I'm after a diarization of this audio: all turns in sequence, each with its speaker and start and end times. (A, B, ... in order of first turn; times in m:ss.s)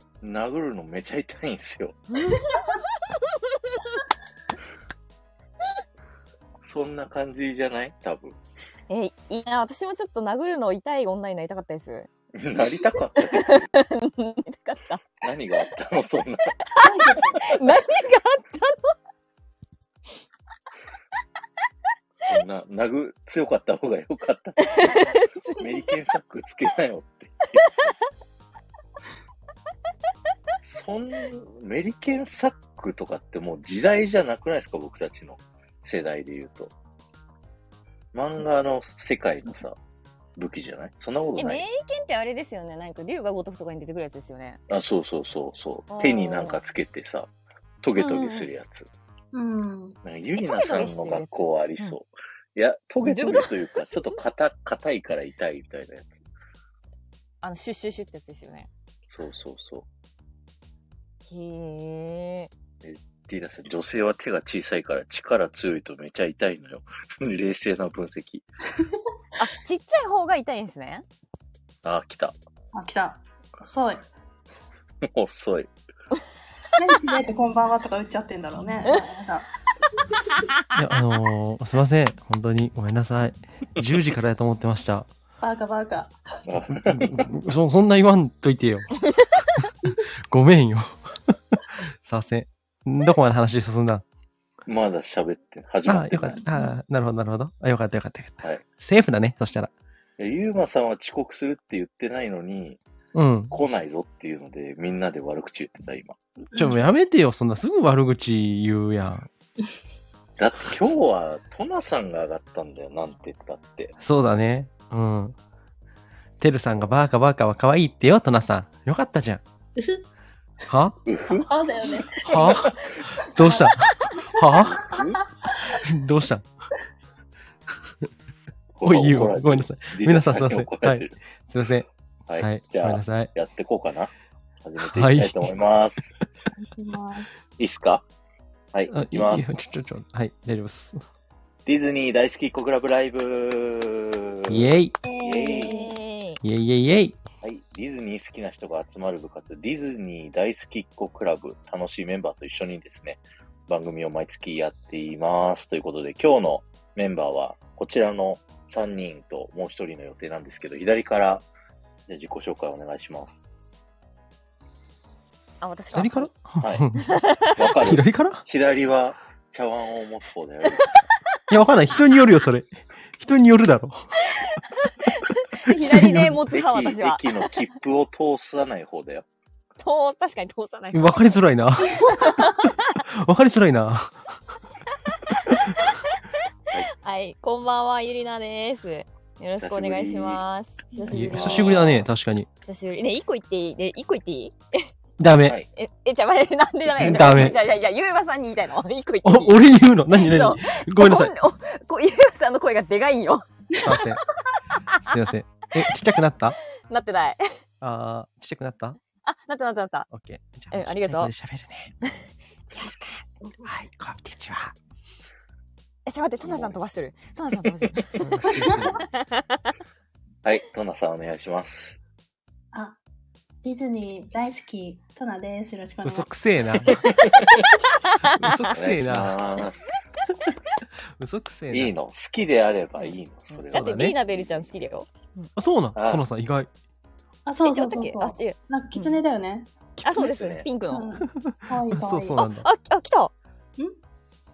0:00.2-0:02.0 A
0:02.1-0:02.9 B
0:06.6-0:08.4 A
0:08.9-0:12.1 B
0:12.4-0:13.7 A
0:13.2-0:15.0 B
0:15.2-0:16.6 A
0:16.8-0:17.5 C
0:17.4-0:18.9 B
0:22.2-0:27.9 A
0:24.8-0:25.6 B
0:30.6-0:36.7 A
0:38.1-0:39.8 A
0:40.4-0:41.6 A
0:41.4-0:44.6 B
0:44.7-0:47.3 A
0:45.9-0:46.6 B
0:47.8-0:48.9 A
0:48.0-0:48.5 B
0:49.3-0:50.0 C
0:50.0-0:56.2 A
0:50.4-0:52.0 B
0:53.0-0:53.8 B
0:57.4-0:58.7 B
0:59.1-0:59.8 A
1:01.2-1:02.5 B
1:02.8-1:08.4 A
1:09.4-1:11.0 B
1:11.8-1:12.3 A
1:12.7-1:14.0 C
1:15.0-1:15.7 A
1:16.8-1:19.5 C
1:20.7-1:25.1 D
1:25.4-1:26.2 C
1:26.5-1:27.2 A
1:26.9-1:29.0 D
1:29.6-1:34.0 D
1:34.6-1:36.4 A
1:35.9-1:39.7 D
1:40.2-1:42.8 A
1:43.1-1:43.5 D
1:43.5-1:46.2 A
1:46.5-1:46.8 C
1:46.6-1:49.3 D
1:50.4-1:54.0 A
1:54.0-1:55.3 D
1:56.4-1:59.4 D
1:59.8-2:00.0 C
2:00.7-2:01.0 D
2:01.0-2:01.5 A
2:01.3-2:02.8 C
2:02.2-2:04.9 D
2:02.3-2:02.9 A
2:03.4-2:04.2 C
2:04.3-2:05.2 A
2:04.8-2:05.8 C
2:05.7-2:06.5 D
2:08.8-2:11.1 A
2:08.8-2:11.8 D
2:12.3-2:14.1 A
2:12.4-2:13.3 D
2:14.6-2:16.1 A
2:14.8-2:15.5 D
2:16.6-2:17.3 C
2:17.6-2:18.0 A
2:18.7-2:19.5 A
2:18.9-2:21.0 D
2:21.6-2:25.9 A
2:24.5-2:25.0 D
2:25.0-2:26.0 C
2:25.6-2:26.4 B
2:26.4-2:27.2 D
2:27.4-2:41.5 A
2:42.1-2:43.4 A
2:45.6-2:46.3 B
2:45.9-2:47.1 D
2:47.1-2:47.5 B
2:47.6-2:50.8 A
2:47.8-2:48.4 D
2:51.5-2:54.2 D
2:54.4-2:57.5 B
2:55.7-2:56.4 D
2:56.2-2:59.2 A
2:59.8-3:01.2 B
3:00.9-3:02.5 D
3:02.0-3:02.7 B
3:03.2-3:04.2 D
3:06.9-3:11.8 B
3:09.6-3:10.4 A
3:11.0-3:12.1 A
3:11.1-3:12.5 D
3:12.6-3:14.9 B
3:15.2-3:15.6 D
3:15.7-3:23.5 B
3:16.9-3:17.6 D
3:17.0-3:17.6 A
3:19.2-3:21.3 D
3:23.8-3:24.0 C
3:23.8-3:24.2 D
3:24.9-3:26.6 D
3:26.9-3:27.4 B
3:27.8-3:29.0 D
3:29.2-3:30.1 B
3:30.1-3:31.9 D
3:30.7-3:31.3 B
3:32.7-3:33.2 B
3:33.6-3:34.7 D
3:36.0-3:39.7 B
3:36.4-3:36.8 A
3:38.2-3:39.0 D
3:38.5-3:38.9 C
3:40.4-3:42.0 A
3:42.7-3:43.0 C
3:43.6-3:46.3 C
3:46.0-3:47.1 D
3:46.9-3:48.6 B
3:48.3-3:49.3 D
3:48.7-3:49.9 A
3:51.2-3:51.9 D
3:51.7-3:54.7 A
3:53.7-3:55.5 B
3:53.7-3:54.1 D
3:55.6-3:56.7 D
3:55.9-3:56.2 A
3:57.4-3:59.7 C
3:57.6-3:59.2 B
4:00.0-4:00.3 D
4:00.0-4:01.2 B
4:00.2-4:00.7 A
4:00.9-4:02.4 C
4:01.3-4:02.7 D
4:02.4-4:03.3 B